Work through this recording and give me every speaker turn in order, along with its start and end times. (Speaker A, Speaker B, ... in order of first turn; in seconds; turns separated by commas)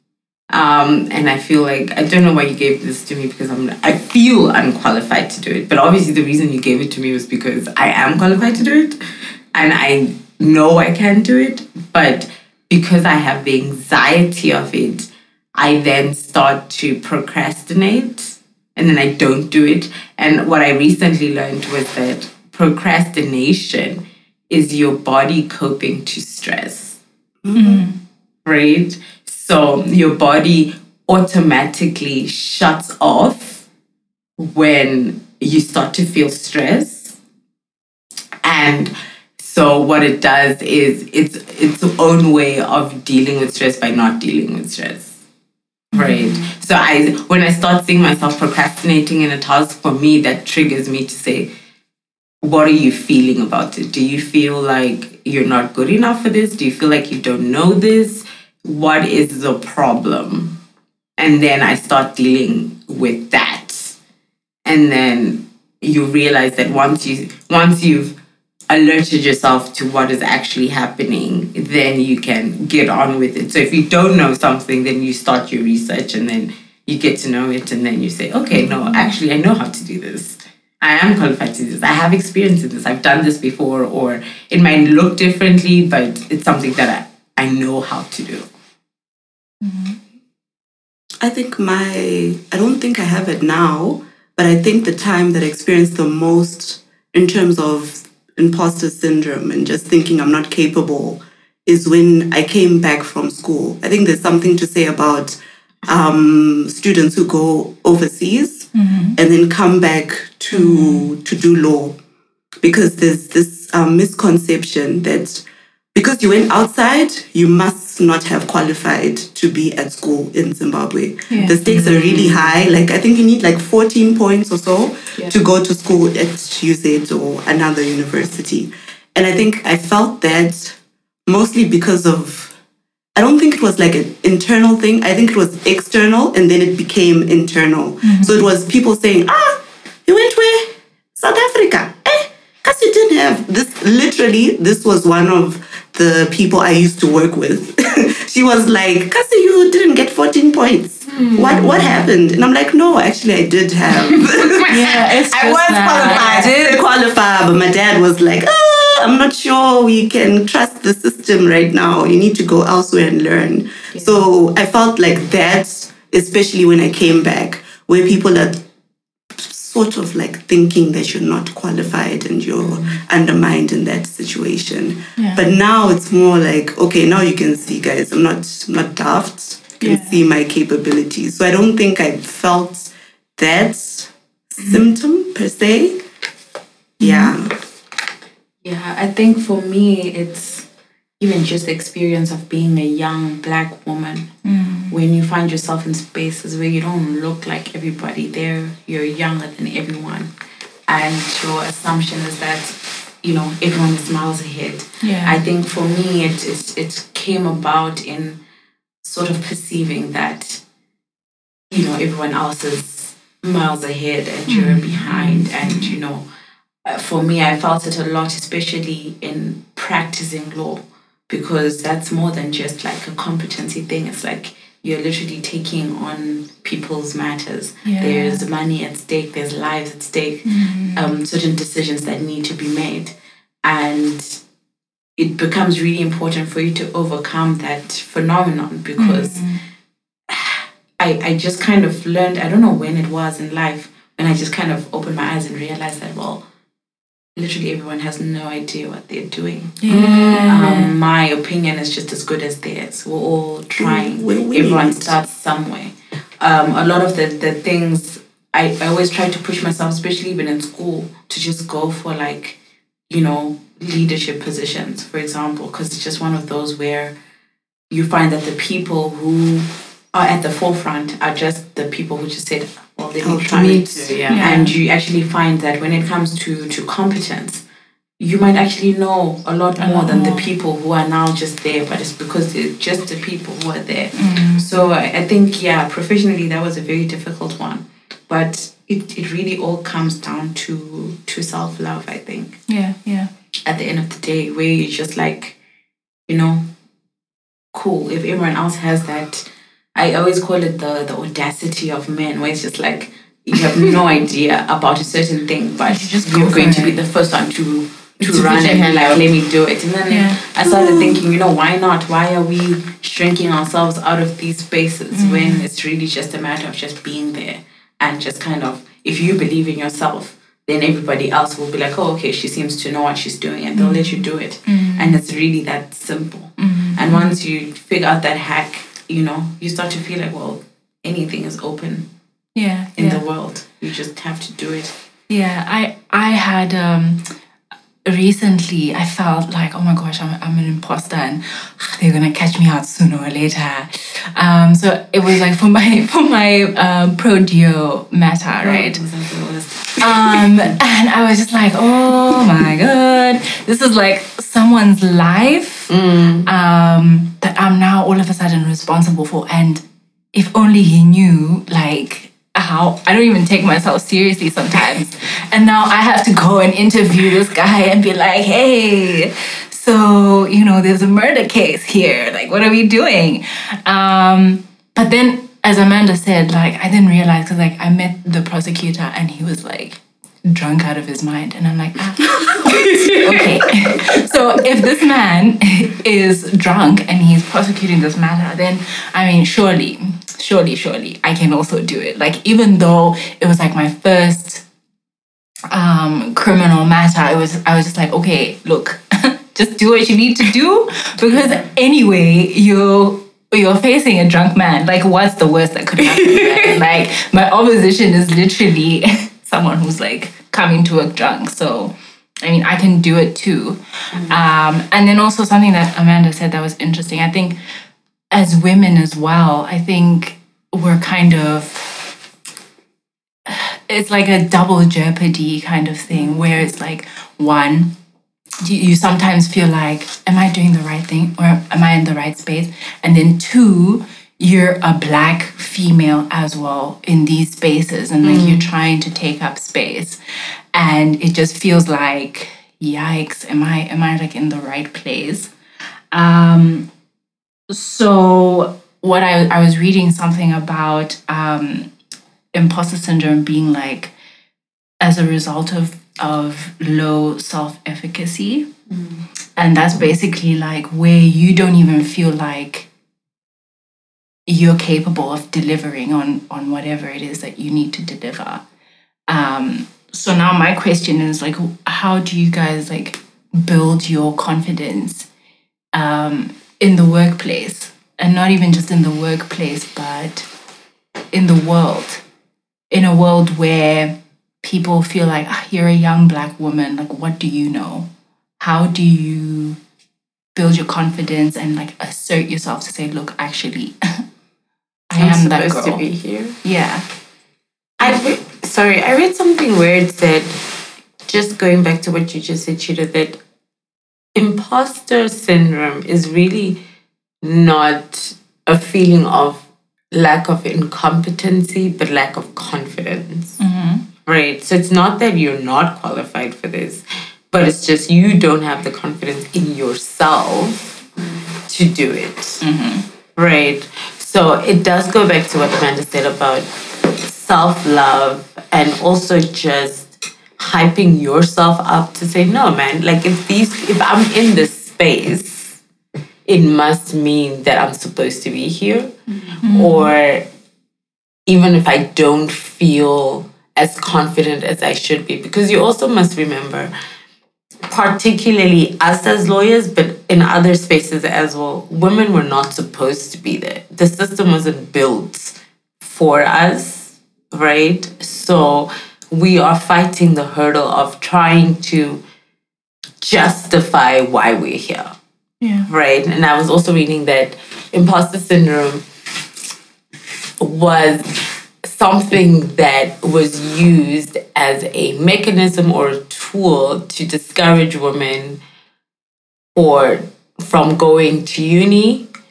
Speaker A: 0.5-9.0, Speaker A: 9.5-27.0, Speaker B: 27.4-27.8, Speaker C: 27.5-28.0, Speaker A: 28.4-33.6, Speaker A: 34.4-37.2, Speaker A: 38.4-45.1, Speaker A: 45.9-51.5, Speaker D: 46.1-46.5, Speaker A: 52.4-60.6, Speaker A: 61.2-64.0, Speaker A: 64.7-68.2, Speaker A: 68.7-88.5, Speaker C: 89.6-90.0, Speaker B: 91.2-112.0, Speaker C: 108.7-109.2, Speaker C: 110.5-111.0, Speaker B: 112.6-115.4, Speaker B: 115.9-130.8, Speaker C: 121.3-121.6, Speaker D: 121.5-122.5, Speaker B: 131.3-132.5, Speaker B: 133.2-168.6, Speaker C: 138.0-138.4, Speaker C: 154.7-156.5, Speaker A: 155.4-156.2, Speaker D: 156.1-156.8, Speaker D: 163.9-164.2, Speaker B: 169.4-186.0, Speaker D: 172.6-173.0, Speaker C: 175.2-175.4, Speaker C: 179.8-180.2, Speaker C: 187.0-187.4, Speaker B: 187.0-187.5, Speaker D: 188.6-190.7, Speaker D: 191.2-194.3, Speaker C: 194.4-194.9, Speaker D: 194.9-200.3, Speaker D: 200.9-208.4, Speaker C: 205.0-205.4, Speaker D: 209.0-210.6, Speaker D: 211.7-216.2, Speaker C: 214.5-216.0, Speaker D: 216.8-234.4, Speaker C: 227.8-228.4, Speaker C: 230.4-231.1, Speaker D: 235.2-239.4, Speaker C: 239.0-239.6, Speaker D: 240.3-246.4, Speaker D: 247.3-249.8, Speaker C: 249.8-250.9, Speaker A: 249.9-250.5, Speaker D: 250.3-262.6, Speaker B: 253.7-255.2, Speaker D: 263.1-267.1, Speaker D: 267.9-277.6, Speaker B: 273.2-273.8, Speaker A: 273.5-274.5, Speaker C: 274.3-274.8, Speaker D: 278.2-292.6, Speaker C: 279.8-280.5, Speaker C: 284.1-284.7, Speaker C: 292.7-293.3, Speaker D: 293.6-295.6, Speaker D: 296.3-296.7, Speaker D: 297.7-332.1, Speaker C: 305.9-307.0, Speaker A: 308.2-309.3, Speaker C: 310.1-310.4, Speaker B: 310.8-311.1, Speaker C: 315.1-315.6, Speaker C: 323.8-325.2, Speaker C: 326.6-327.4, Speaker C: 332.6-333.2, Speaker D: 333.0-334.9, Speaker C: 335.3-337.2, Speaker C: 338.1-349.0, Speaker D: 348.5-350.7, Speaker C: 350.0-355.9, Speaker A: 355.9-356.5, Speaker C: 356.4-394.6, Speaker A: 382.8-383.0, Speaker C: 395.7-417.6, Speaker D: 401.3-401.6, Speaker A: 406.1-406.6, Speaker D: 414.1-414.4, Speaker C: 418.3-422.0, Speaker C: 423.5-428.0, Speaker D: 426.1-426.5, Speaker C: 428.6-440.2, Speaker A: 438.2-438.7, Speaker C: 440.7-445.5, Speaker C: 446.1-446.9, Speaker C: 447.7-451.9, Speaker C: 452.5-454.1, Speaker C: 455.0-458.7, Speaker D: 458.9-459.2, Speaker C: 459.6-462.9, Speaker C: 464.5-468.6, Speaker C: 469.3-475.3, Speaker C: 475.9-480.5, Speaker C: 481.3-482.2, Speaker C: 482.9-488.1, Speaker C: 488.6-489.8, Speaker C: 490.6-494.2, Speaker C: 495.1-496.0, Speaker A: 495.2-496.6, Speaker C: 496.6-497.1, Speaker A: 498.0-500.6, Speaker A: 501.3-503.4, Speaker A: 504.4-506.8, Speaker A: 507.4-513.6, Speaker C: 513.6-514.0, Speaker A: 514.2-521.0, Speaker D: 521.2-521.5, Speaker A: 521.7-522.6, Speaker C: 522.6-523.0, Speaker A: 523.4-535.8, Speaker A: 536.5-539.1, Speaker D: 539.3-539.6, Speaker C: 539.6-540.1, Speaker A: 539.7-540.5, Speaker A: 541.5-546.9, Speaker A: 547.9-562.2, Speaker A: 563.2-565.1, Speaker C: 565.6-565.9, Speaker A: 565.9-569.0, Speaker A: 570.6-578.6, Speaker A: 579.8-582.3